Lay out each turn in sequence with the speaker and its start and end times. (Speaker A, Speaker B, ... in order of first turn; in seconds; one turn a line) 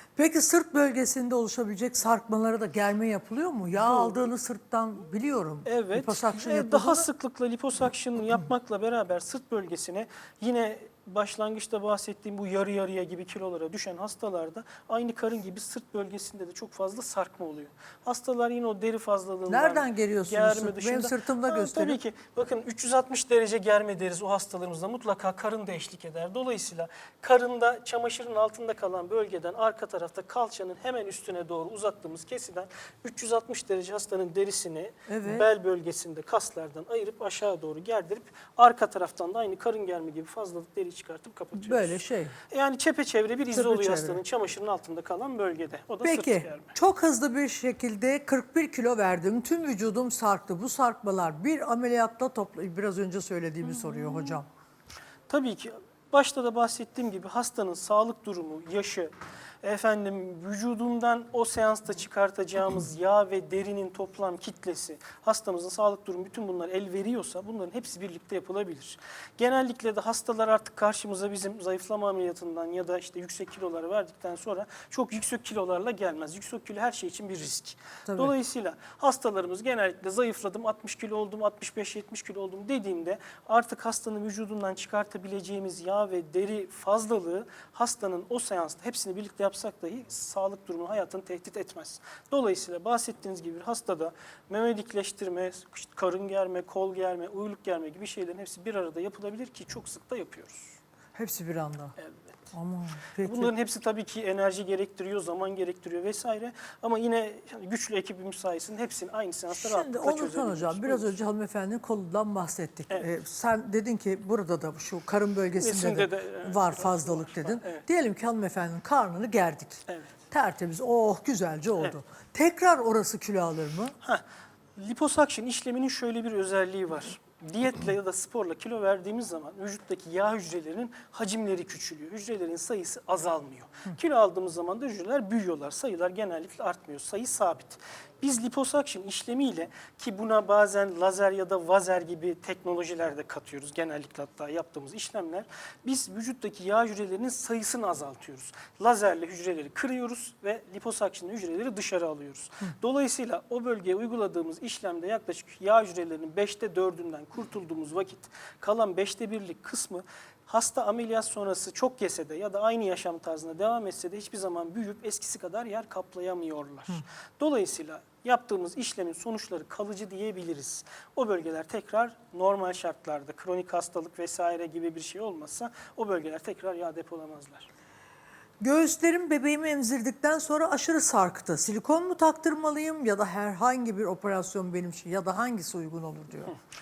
Speaker A: 0.1-7.1
Speaker B: 3.8-4.1
Speaker B: 5.7-42.0
Speaker A: 19.5-22.0
Speaker A: 35.1-35.5
Speaker A: 41.5-42.4
Speaker B: 42.5-46.7
Speaker A: 43.5-44.2
Speaker A: 46.0-54.5
Speaker B: 53.6-54.4
Speaker B: 55.3-59.1
Speaker B: 59.6-100.8
Speaker A: 78.1-78.3
Speaker A: 101.1-102.0
Speaker A: 102.5-103.5
Speaker B: 103.2-111.1
Speaker A: 109.5-123.9
Speaker B: 115.6-117.8
Speaker B: 119.9-120.1
Speaker B: 124.8-177.7
Speaker A: 178.6-186.5